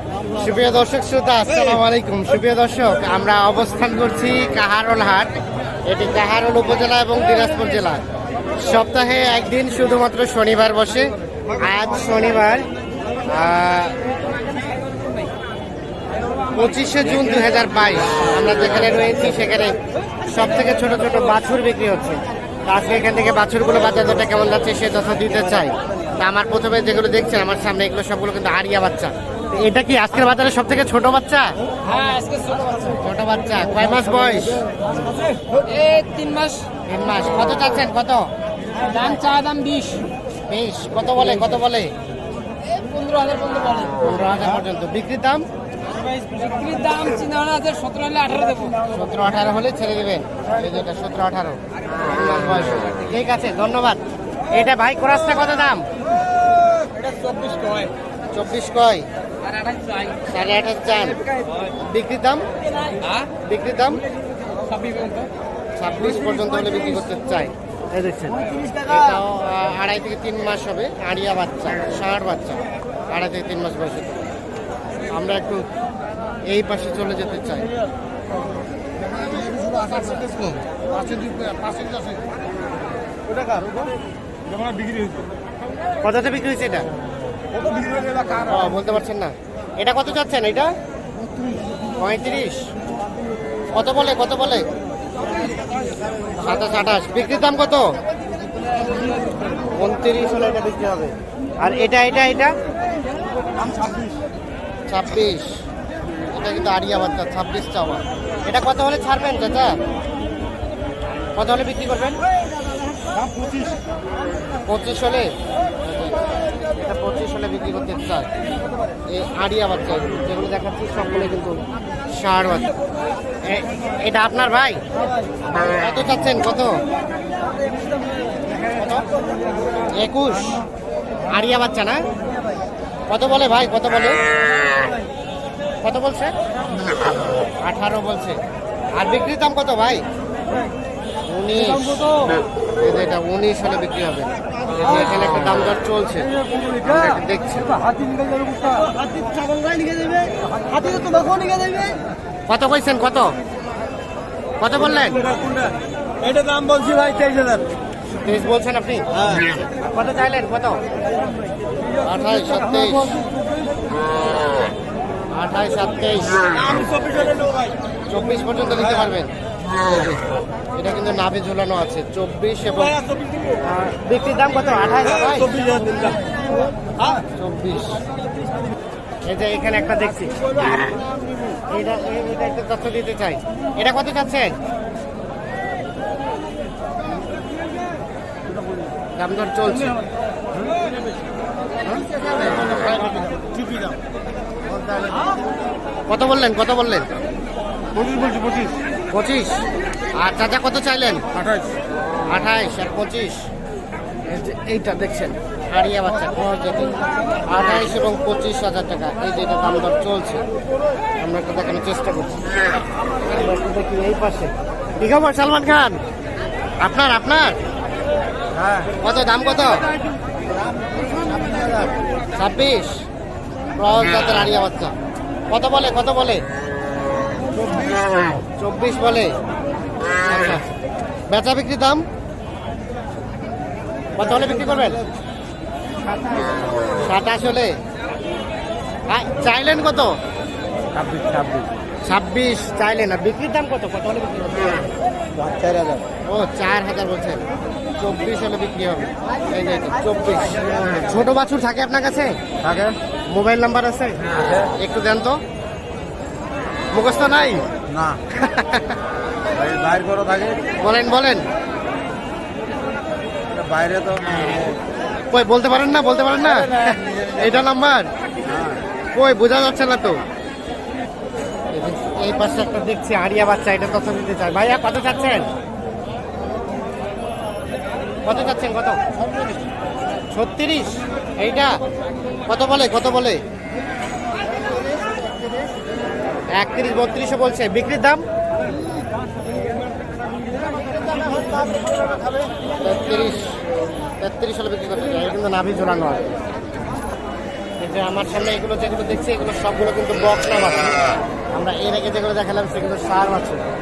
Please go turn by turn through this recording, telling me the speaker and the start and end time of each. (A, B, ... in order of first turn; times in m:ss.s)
0:00.3-0:05.3 A
0:05.9-0:08.0 A
0:08.6-0:12.7 A
0:13.3-0:13.9 A
0:16.5-0:31.6 A
0:31.8-0:32.9 B
0:33.0-0:34.6 A
0:35.5-0:36.7 B
0:36.9-0:38.3 A
0:38.8-0:40.0 B
0:40.5-0:41.9 A
0:42.9-0:43.8 B
0:43.9-0:45.4 A
0:46.0-0:48.8 B
0:48.8-0:55.8 A
0:57.0-0:57.9 C
0:58.3-0:59.0 A
0:59.8-1:00.1 B
1:00.3-1:02.4 A
1:03.4-1:04.0 A
1:04.8-1:05.2 B
1:05.8-1:14.2 A
1:15.1-1:15.7 A
1:16.4-1:17.7 A
1:23.4-1:23.6 C
1:26.0-1:26.9 A
1:28.3-1:30.7 A
1:32.0-1:32.6 A
1:33.7-1:34.7 A
1:36.4-1:38.0 A
1:39.7-1:42.5 A
1:44.9-1:45.6 A
1:46.3-1:49.8 A
1:51.4-1:52.2 A
1:54.6-1:55.3 A
1:55.8-1:56.2 A
1:56.7-1:58.3 A
1:59.1-2:02.7 A
2:03.4-2:04.8 A
2:05.5-2:06.8 A
2:08.6-2:09.1 A
2:09.9-2:10.6 A
2:11.3-2:12.0 A
2:13.1-2:14.2 A
2:15.8-2:16.3 A
2:17.6-2:18.4 A
2:18.9-2:20.0 A
2:21.3-2:22.2 A
2:22.8-2:27.7 A
2:28.1-2:32.0 C
2:32.5-2:33.3 A
2:34.6-2:35.3 A
2:35.4-2:37.6 C
2:38.2-2:39.2 A
2:39.7-2:40.8 A
2:42.0-2:43.2 A
2:45.3-2:46.5 A
2:46.9-2:47.6 C
2:48.1-2:50.2 A
2:50.7-2:53.0 A
2:53.6-2:55.6 A
2:55.6-2:56.2 C
2:57.3-2:58.0 A
2:59.2-3:00.5 A
3:01.7-3:04.6 A
3:09.2-3:10.0 A
3:11.9-3:13.3 A
3:13.4-3:13.8 C
3:14.9-3:15.2 C
3:16.1-3:17.1 A
3:18.0-3:18.3 C
3:19.1-3:21.3 A
3:22.3-3:23.5 A
3:24.2-3:26.9 A
3:27.5-3:30.4 A
3:31.2-3:32.5 A
3:33.2-3:36.0 A
3:36.8-3:37.6 A
3:39.0-3:39.9 A
3:41.4-3:41.9 C
3:42.3-3:43.0 A
3:43.8-3:44.9 A
3:45.5-3:46.4 A
3:48.6-3:49.3 A
3:50.2-3:50.7 A
3:51.3-3:52.0 A
3:54.2-3:55.0 A
3:56.9-3:57.8 A
3:59.1-4:00.1 A
4:01.0-4:01.7 C
4:02.0-4:04.9 A
4:05.4-4:06.0 C
4:06.2-4:07.4 A
4:08.0-4:12.4 A
4:12.6-4:12.9 C
4:13.3-4:15.4 A
4:16.9-4:17.7 A
4:18.3-4:19.0 A
4:19.6-4:20.4 C
4:20.8-4:21.4 A
4:25.3-4:28.1 A
4:29.1-4:30.2 A
4:31.7-4:35.5 A
4:38.2-4:39.0 A
4:40.3-4:41.8 A
4:42.5-4:43.4 A
4:46.5-4:48.2 A
4:51.1-4:52.3 C
4:52.8-4:53.6 A
4:54.2-4:56.3 A
4:57.8-5:01.0 A
5:01.5-5:03.6 A